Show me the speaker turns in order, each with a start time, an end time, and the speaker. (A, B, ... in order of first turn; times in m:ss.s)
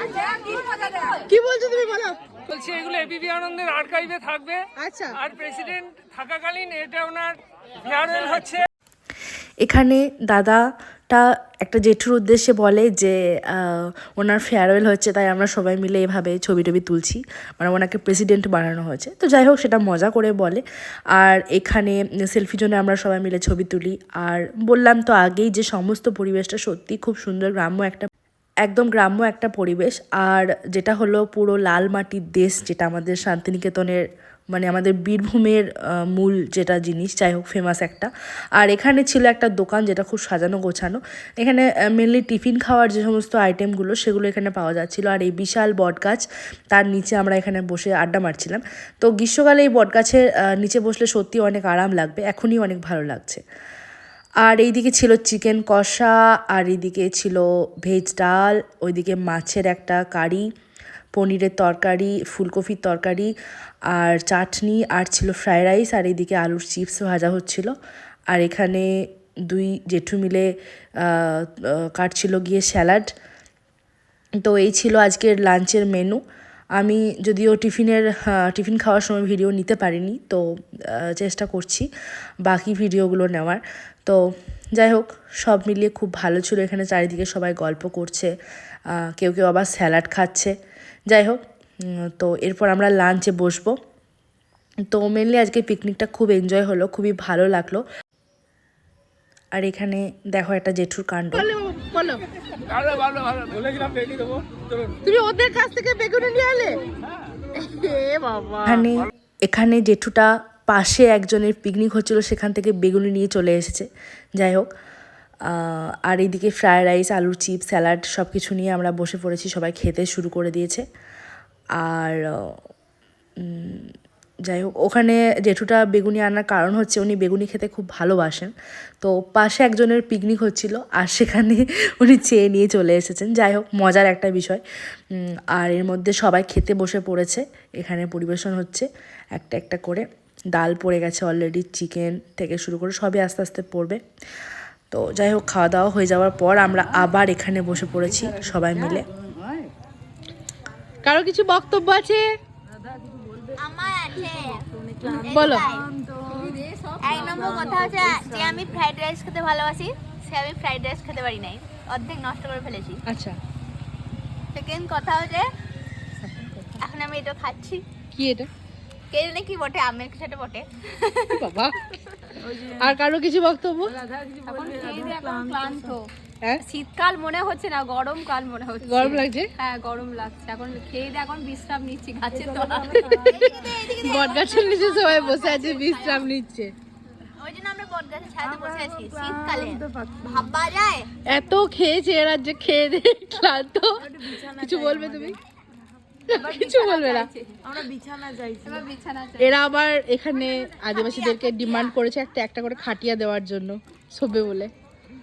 0:00.4-0:01.1 A
0:01.1-0:02.2 B
0:02.5-0:04.7 C
0:04.7-0:05.3 B
0:05.3-0:08.6 C
0:09.6-0:20.6 D
0:21.1-0:28.1 D
0:28.6-0:53.4 D
0:54.4-1:00.4 D
1:01.1-1:03.3 D
1:03.9-1:07.7 D
1:08.3-1:08.9 D
1:09.5-1:13.1 D
1:14.4-1:16.2 D
1:16.8-1:21.9 D
1:22.4-1:24.2 D
1:24.8-1:28.3 D
1:28.9-1:30.5 D
1:31.1-1:33.8 D
1:34.9-1:37.8 D
1:39.6-1:41.5 D
1:41.4-1:42.2 B
1:42.8-1:43.4 B
1:43.3-1:44.1 C
1:44.9-1:46.8 B
1:47.6-1:48.6 B
1:48.6-1:54.7 D
1:55.4-2:00.8 D
2:01.8-2:02.6 D
2:03.4-2:03.9 D
2:04.4-2:24.0 D
2:24.9-2:29.1 D
2:31.0-2:32.2 B
2:33.6-2:35.9 E
2:35.2-2:35.7 B
2:36.2-2:38.2 A
2:37.0-2:43.0 E
2:43.1-2:43.4 B
2:44.5-2:45.5 E
2:46.8-2:47.8 E
2:48.1-2:48.5 B
2:49.1-2:51.4 E
2:51.4-2:51.9 B
2:52.6-2:54.0 B
2:54.4-2:56.1 A
2:56.6-3:03.0 A
2:58.8-2:59.5 B
3:02.8-3:06.7 B
3:03.2-3:06.3 E
3:07.4-3:11.1 E
3:11.3-3:15.4 B
3:16.3-3:17.3 B
3:16.3-3:19.5 A
3:19.4-3:24.7 B